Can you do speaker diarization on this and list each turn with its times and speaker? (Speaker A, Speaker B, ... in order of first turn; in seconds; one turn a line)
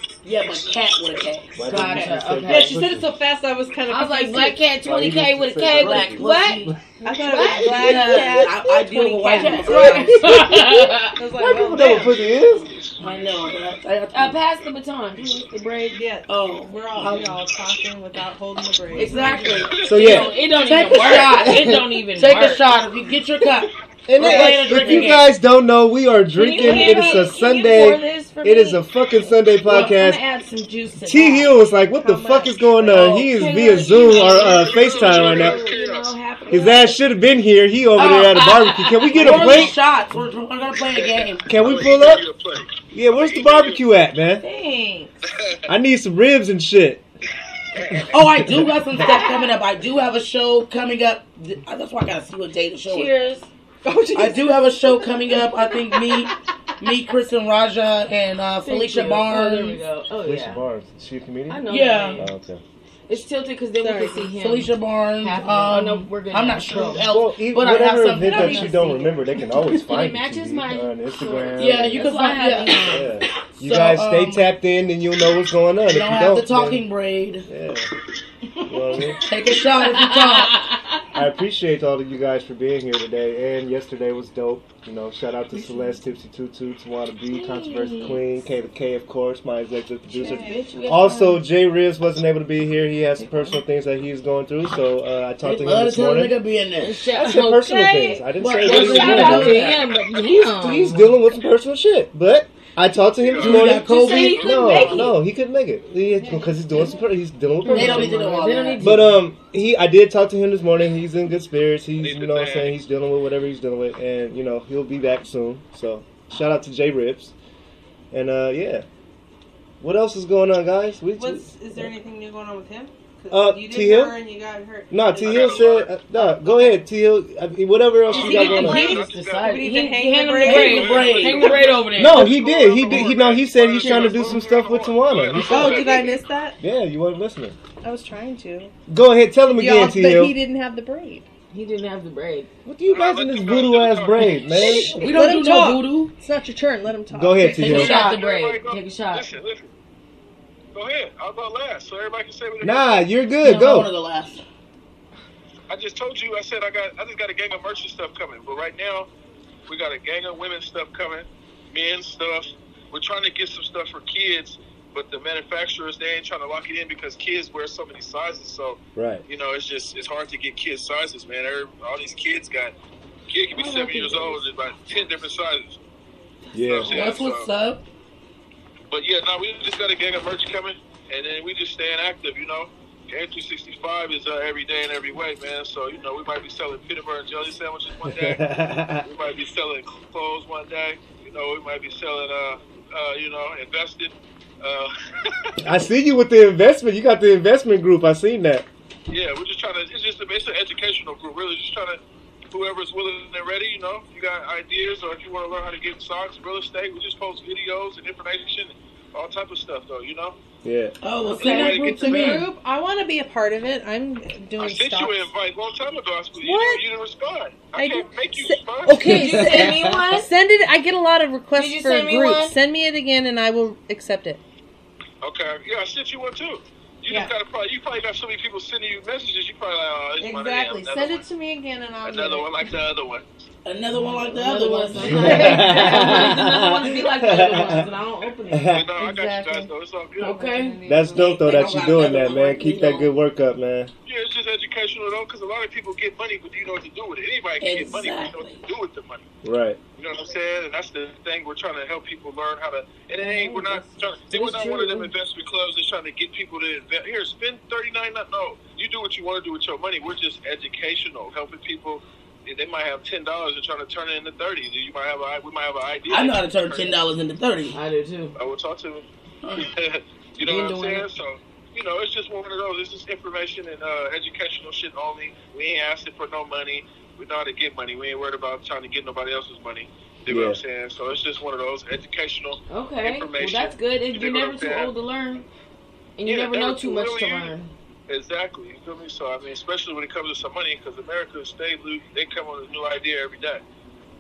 Speaker A: 0.2-2.3
Speaker B: 1.6-3.1
Speaker C: 1.7-2.8
Speaker D: 2.4-4.6
Speaker C: 3.9-11.2
Speaker B: 4.8-6.8
Speaker A: 5.7-6.8
Speaker D: 7.0-10.5
Speaker A: 7.4-10.5
Speaker B: 9.8-10.8
Speaker D: 11.1-12.2
Speaker B: 11.3-12.7
Speaker A: 13.0-14.4
Speaker C: 14.1-16.0
Speaker D: 15.9-19.8
Speaker A: 16.3-17.4
Speaker A: 18.9-25.3
Speaker C: 19.1-22.6
Speaker E: 19.7-20.2
Speaker B: 19.8-20.4
Speaker B: 21.5-21.8
Speaker B: 24.1-30.2
Speaker C: 24.2-25.2
Speaker C: 26.4-28.8
Speaker A: 26.6-27.2
Speaker C: 29.6-31.5
Speaker B: 31.1-35.6
Speaker D: 32.0-32.6
Speaker C: 32.8-37.0
Speaker E: 33.9-36.1
Speaker B: 36.5-39.8
Speaker C: 38.0-39.7
Speaker A: 38.0-38.4
Speaker A: 39.1-41.5
Speaker E: 40.8-43.8
Speaker B: 41.5-42.2
Speaker B: 42.9-44.4
Speaker D: 44.4-45.2
Speaker E: 45.2-45.7
Speaker B: 45.7-47.0
Speaker E: 47.7-48.1
Speaker B: 47.9-48.8
Speaker A: 48.1-53.1
Speaker C: 52.9-53.5
Speaker D: 53.9-56.3
Speaker A: 54.1-59.8
Speaker C: 58.6-60.6
Speaker B: 60.2-62.6
Speaker C: 61.5-62.3
Speaker A: 61.7-62.3
Speaker C: 63.1-67.1
Speaker D: 63.8-64.3
Speaker A: 64.4-69.1
Speaker B: 66.9-72.1
Speaker D: 68.2-68.8
Speaker C: 69.9-73.2
Speaker A: 71.6-73.0
Speaker B: 72.9-76.8
Speaker A: 73.6-74.5
Speaker A: 75.9-77.5
Speaker B: 77.5-77.9
Speaker B: 78.7-79.2
Speaker A: 79.1-80.7
Speaker C: 79.5-81.0
Speaker B: 81.1-96.3
Speaker C: 87.3-88.4
Speaker C: 90.1-91.4
Speaker D: 90.2-90.6
Speaker A: 95.4-97.0
Speaker C: 96.8-101.2
Speaker B: 97.1-99.8
Speaker A: 98.4-99.9
Speaker B: 100.4-108.1
Speaker E: 103.2-103.7
Speaker A: 103.4-104.9
Speaker C: 103.6-105.2
Speaker E: 104.4-105.1
Speaker D: 106.2-106.5
Speaker C: 107.6-109.2
Speaker A: 107.7-109.0
Speaker B: 108.8-117.3
Speaker E: 112.0-112.8
Speaker B: 118.1-118.9
Speaker B: 119.8-121.9
Speaker D: 121.2-126.8
Speaker B: 123.3-124.2
Speaker B: 124.9-128.9
Speaker E: 125.2-125.9
Speaker E: 128.1-129.8
Speaker D: 128.1-131.7
Speaker C: 128.2-132.3
Speaker A: 130.4-131.8
Speaker E: 130.5-136.2
Speaker B: 131.9-136.0
Speaker C: 133.8-134.2
Speaker D: 135.4-136.6
Speaker B: 136.6-137.6
Speaker D: 137.8-138.7
Speaker B: 138.9-140.3
Speaker D: 139.6-141.3
Speaker C: 141.5-142.5
Speaker B: 142.7-145.0
Speaker E: 142.9-144.4
Speaker C: 144.5-145.2
Speaker A: 144.6-146.1
Speaker D: 145.1-148.2
Speaker B: 147.1-148.0
Speaker A: 147.6-148.2
Speaker C: 147.6-149.3
Speaker E: 147.7-149.7
Speaker E: 150.7-153.1
Speaker B: 152.6-153.9
Speaker A: 153.4-154.4
Speaker E: 155.7-159.1
Speaker E: 159.7-172.7
Speaker B: 169.0-169.2
Speaker E: 173.3-175.8
Speaker C: 173.6-174.4
Speaker B: 176.5-177.1
Speaker E: 176.6-177.5
Speaker A: 176.9-177.8
Speaker E: 178.9-195.5
Speaker B: 188.1-189.1
Speaker B: 195.6-198.7
Speaker E: 199.1-202.0
Speaker E: 202.5-210.3
Speaker B: 210.6-210.9
Speaker A: 211.0-212.5
Speaker C: 211.3-212.4
Speaker E: 211.3-212.4
Speaker D: 211.4-215.3
Speaker E: 214.6-219.2
Speaker D: 216.4-216.8
Speaker D: 217.8-224.4
Speaker C: 218.9-220.3
Speaker B: 218.9-220.1
Speaker C: 221.6-222.6
Speaker E: 225.2-231.2
Speaker D: 230.2-232.5
Speaker E: 232.0-233.2
Speaker A: 233.7-236.3
Speaker C: 234.0-238.8
Speaker B: 235.0-237.8
Speaker B: 238.5-238.9
Speaker E: 238.7-240.4
Speaker D: 238.9-241.6
Speaker C: 240.2-240.8
Speaker B: 240.8-243.9
Speaker A: 241.1-243.1
Speaker E: 244.1-249.2
Speaker A: 247.6-248.7
Speaker B: 249.4-249.8
Speaker E: 250.0-267.0
Speaker C: 253.2-255.1
Speaker A: 266.1-267.8
Speaker C: 267.7-268.4
Speaker E: 268.4-284.9
Speaker C: 270.4-271.1
Speaker B: 280.3-280.6
Speaker C: 282.7-285.5
Speaker C: 286.2-287.7
Speaker E: 286.3-287.5
Speaker E: 288.1-293.6